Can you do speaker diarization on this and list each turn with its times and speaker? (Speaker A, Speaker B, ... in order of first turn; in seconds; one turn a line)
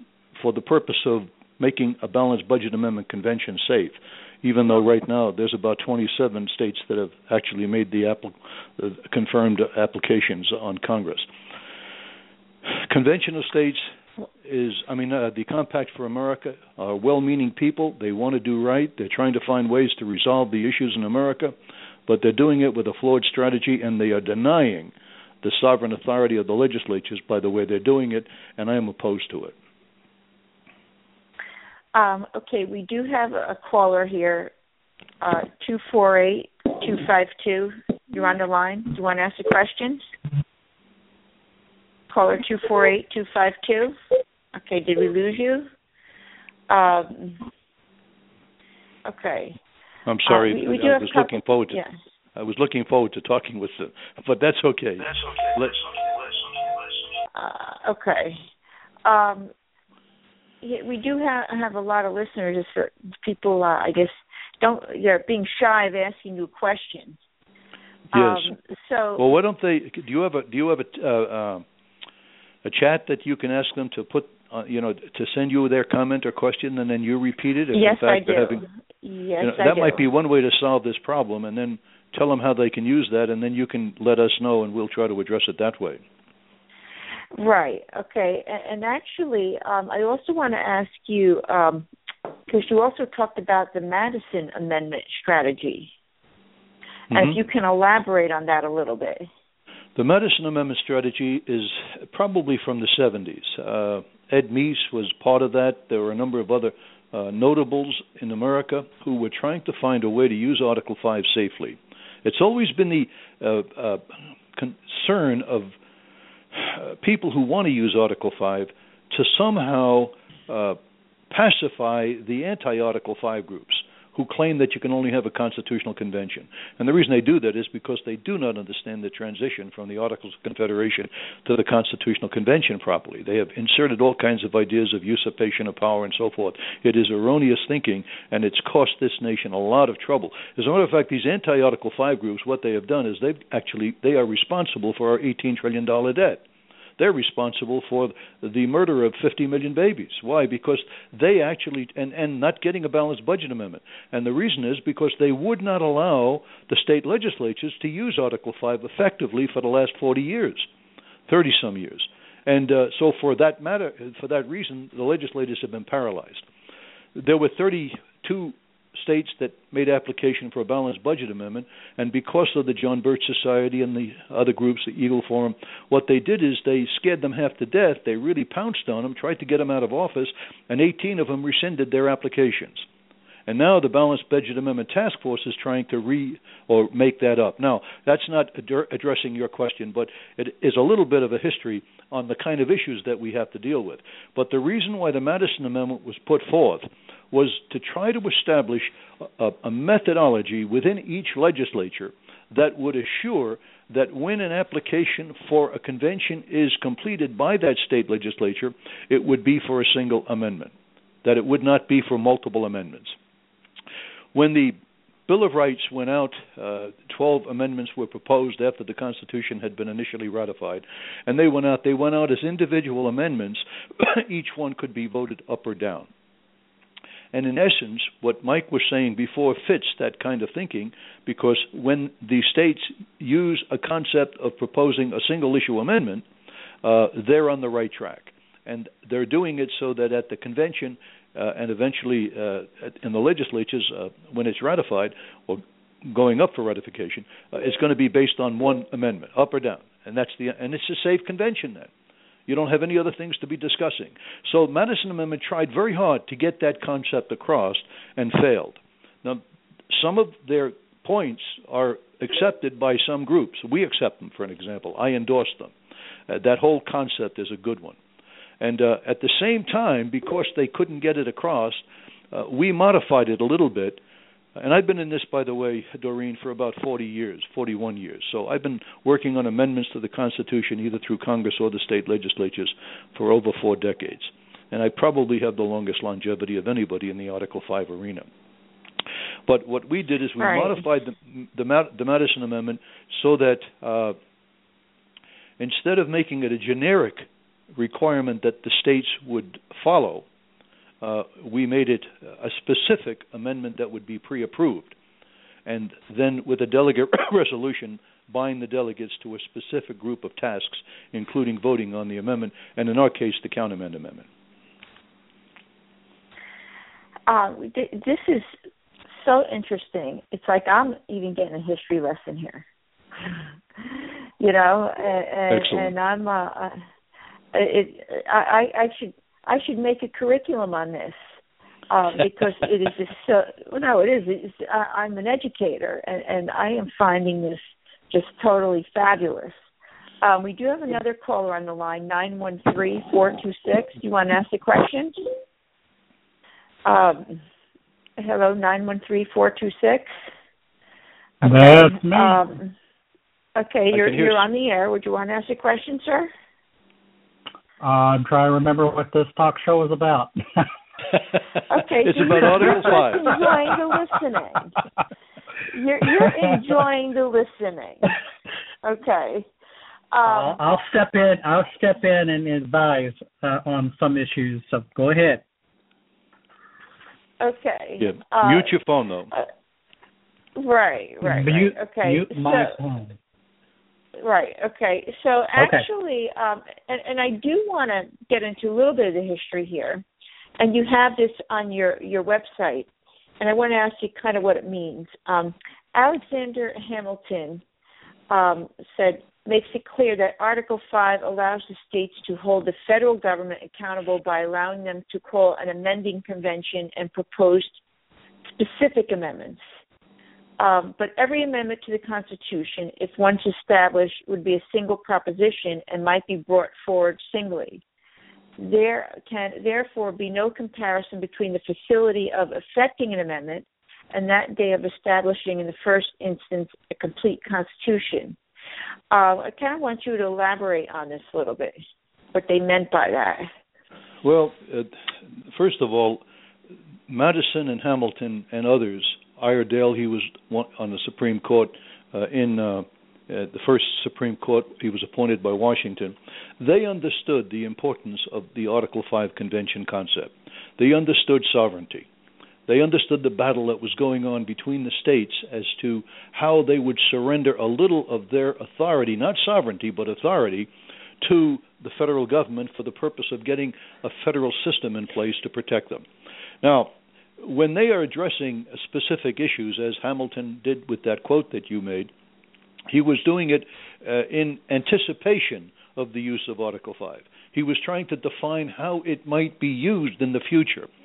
Speaker A: 0.3-11.3
Speaker A: 12.9-13.8
Speaker A: 14.4-21.5
Speaker A: 22.1-29.5
Speaker B: 31.9-34.5
Speaker B: 35.2-40.0
Speaker B: 42.1-44.0
Speaker B: 44.5-45.7
Speaker B: 46.7-47.4
Speaker B: 49.0-49.6
Speaker A: 50.0-51.8
Speaker B: 50.2-51.9
Speaker A: 52.4-56.1
Speaker B: 57.3-58.4
Speaker B: 59.0-59.5
Speaker B: 60.6-67.2
Speaker B: 68.1-69.2
Speaker A: 68.1-68.5
Speaker A: 69.2-71.6
Speaker A: 72.6-78.6
Speaker B: 77.7-80.0
Speaker A: 79.4-86.0
Speaker B: 87.3-91.9
Speaker B: 92.5-95.9
Speaker A: 97.1-97.4
Speaker B: 97.1-99.3
Speaker A: 100.0-115.7
Speaker A: 116.5-120.8
Speaker A: 121.3-146.4
Speaker A: 147.0-160.7
Speaker A: 161.3-166.4
Speaker A: 167.1-182.8
Speaker A: 183.5-210.7
Speaker A: 211.2-213.2
Speaker A: 214.3-226.1
Speaker A: 227.3-236.2
Speaker A: 236.8-251.9
Speaker A: 252.5-265.7
Speaker A: 266.3-268.0
Speaker A: 268.6-274.0
Speaker A: 274.6-288.3
Speaker A: 289.5-294.1
Speaker B: 290.4-290.8
Speaker A: 295.6-300.2
Speaker A: 301.0-304.9
Speaker A: 305.6-314.2
Speaker B: 317.3-318.6
Speaker B: 319.1-322.6
Speaker B: 323.8-326.8
Speaker A: 325.5-325.9
Speaker B: 327.5-331.2
Speaker B: 331.9-339.5
Speaker B: 340.2-345.1
Speaker B: 346.8-347.4
Speaker B: 348.2-350.1
Speaker B: 351.4-352.7
Speaker C: 351.4-352.4
Speaker B: 353.6-356.3
Speaker A: 353.9-354.4
Speaker C: 357.8-360.3
Speaker B: 361.7-364.8
Speaker A: 362.0-363.3
Speaker B: 365.7-368.1
Speaker B: 368.8-369.5
Speaker B: 370.1-370.6
Speaker C: 370.2-375.4
Speaker B: 377.4-378.7
Speaker A: 378.0-379.3
Speaker B: 380.6-382.8
Speaker C: 381.2-383.1
Speaker B: 384.2-390.0
Speaker C: 385.6-385.8
Speaker B: 390.6-397.6
Speaker B: 398.3-407.8
Speaker B: 408.4-409.6
Speaker B: 410.6-417.8
Speaker B: 418.6-428.4
Speaker B: 429.1-431.8
Speaker B: 432.3-433.5
Speaker A: 434.2-436.2
Speaker A: 437.1-452.1
Speaker A: 452.7-460.7
Speaker A: 461.2-466.1
Speaker A: 466.6-472.1
Speaker A: 472.9-480.9